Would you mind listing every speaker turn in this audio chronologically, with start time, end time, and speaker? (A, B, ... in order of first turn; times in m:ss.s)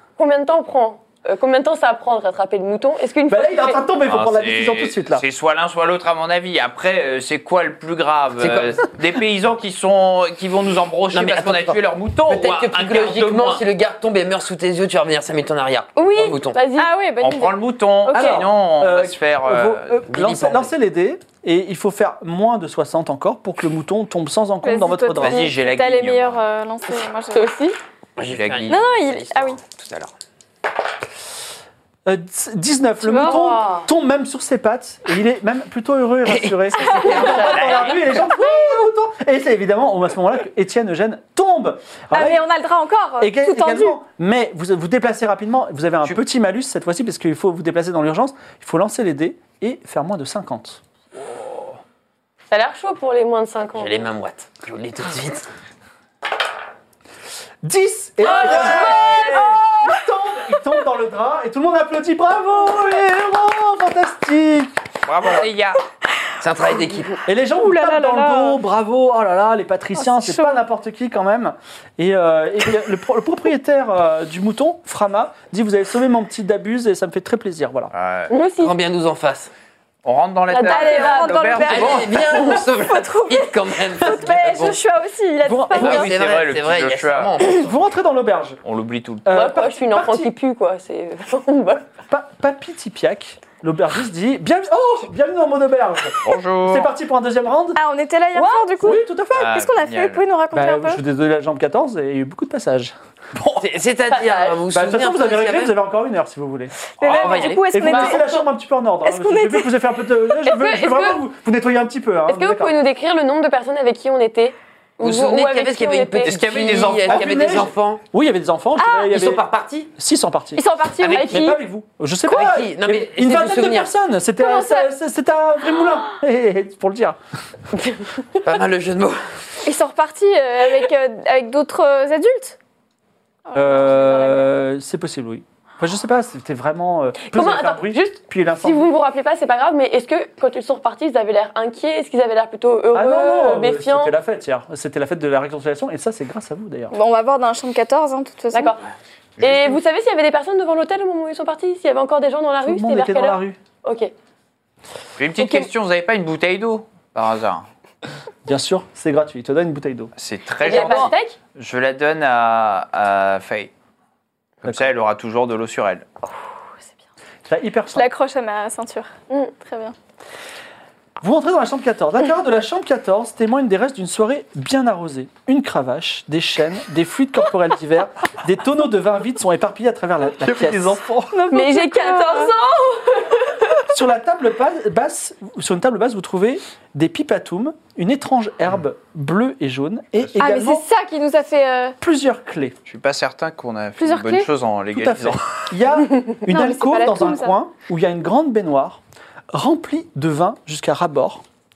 0:00.2-0:03.8 A
0:03.3-0:05.2 B
0:04.0-0:13.6 C
0:08.4-0:08.9 D
0:11.1-0:16.6 D
0:16.0-0:16.9 A
0:16.8-0:18.4 E
0:17.2-0:20.0 C
0:18.1-0:25.5 B
0:20.1-0:20.7 D
0:24.6-0:27.5 E
0:25.2-0:26.4 C
0:26.9-0:27.8 A
0:28.2-0:30.1 D
0:28.2-0:28.8 C
0:28.7-0:29.6 E
0:32.1-0:42.4 B
0:33.0-0:33.4 E
0:33.2-0:33.9 A
0:36.3-0:38.2 D
0:36.8-0:37.3 E
0:37.6-0:38.0 C
0:42.1-0:44.0 E
0:43.2-0:50.8 B
0:52.5-0:54.1 A
0:53.8-0:55.5 D
0:57.6-1:05.4 B
0:58.2-0:59.4 A
0:58.4-0:59.1 C
0:58.5-0:58.8 D
1:05.1-1:05.8 C
1:06.4-1:07.1 D
1:07.3-1:17.9 B
1:07.6-1:08.6 E
1:10.0-1:10.6 E
1:17.9-1:18.3 C
1:18.3-1:18.7 A
1:18.6-1:19.5 D
1:20.0-1:22.2 C
1:20.5-1:21.9 A
1:20.6-1:26.1 E
1:21.6-1:24.8 D
1:25.4-1:26.1 B
1:25.8-1:27.3 C
1:25.8-1:27.8 D
1:27.5-1:28.6 B
1:28.6-1:29.3 C
1:29.2-1:30.3 B
1:29.3-1:31.9 A
1:32.1-1:37.8 B
1:36.2-1:36.9 C
1:37.8-1:41.0 E
1:38.4-1:38.7 A
1:38.7-1:39.5 B
1:39.4-1:40.2 C
1:40.5-1:42.9 B
1:43.6-1:45.8 D
1:44.1-1:44.6 A
1:44.7-1:46.7 B
1:47.0-1:48.3 E
1:47.0-1:48.0 D
1:47.0-1:47.5 C
1:47.7-1:52.7 B
1:47.8-1:48.4 A
1:49.0-1:49.7 E
1:50.4-1:51.2 A
1:52.3-1:56.4 A
1:55.0-1:58.0 D
1:56.2-1:57.7 C
1:57.1-1:59.4 B
1:58.8-1:59.1 E
1:59.1-1:59.9 D
2:00.0-2:07.2 B
2:00.6-2:01.5 E
2:01.0-2:01.4 D
2:01.1-2:01.6 A
2:02.3-2:03.9 D
2:04.4-2:04.9 E
2:08.4-2:09.2 D
2:09.6-2:12.6 E
2:13.4-2:14.4 E
2:13.5-2:18.9 B
2:17.2-2:24.1 A
2:22.9-2:26.9 B
2:26.9-2:28.7 E
2:28.5-2:28.8 A
2:29.4-2:29.7 C
2:29.4-2:34.1 A
2:32.6-2:33.6 B
2:35.2-2:37.6 C
2:35.4-2:35.7 A
2:38.4-2:40.1 B
2:40.2-2:43.7 C
2:40.6-2:41.4 A
2:40.6-2:41.1 B
2:44.6-2:46.1 C
2:47.5-2:48.1 B
2:47.9-2:49.9 E
2:51.2-3:01.0 B
3:00.4-3:01.3 C
3:01.3-3:02.5 E
3:01.5-3:03.7 A
3:03.9-3:10.8 B
3:10.4-3:12.0 E
3:12.0-3:12.7 B
3:12.9-3:15.4 C
3:14.0-3:14.5 E
3:14.9-3:19.0 B
3:16.5-3:17.6 E
3:19.5-3:21.4 B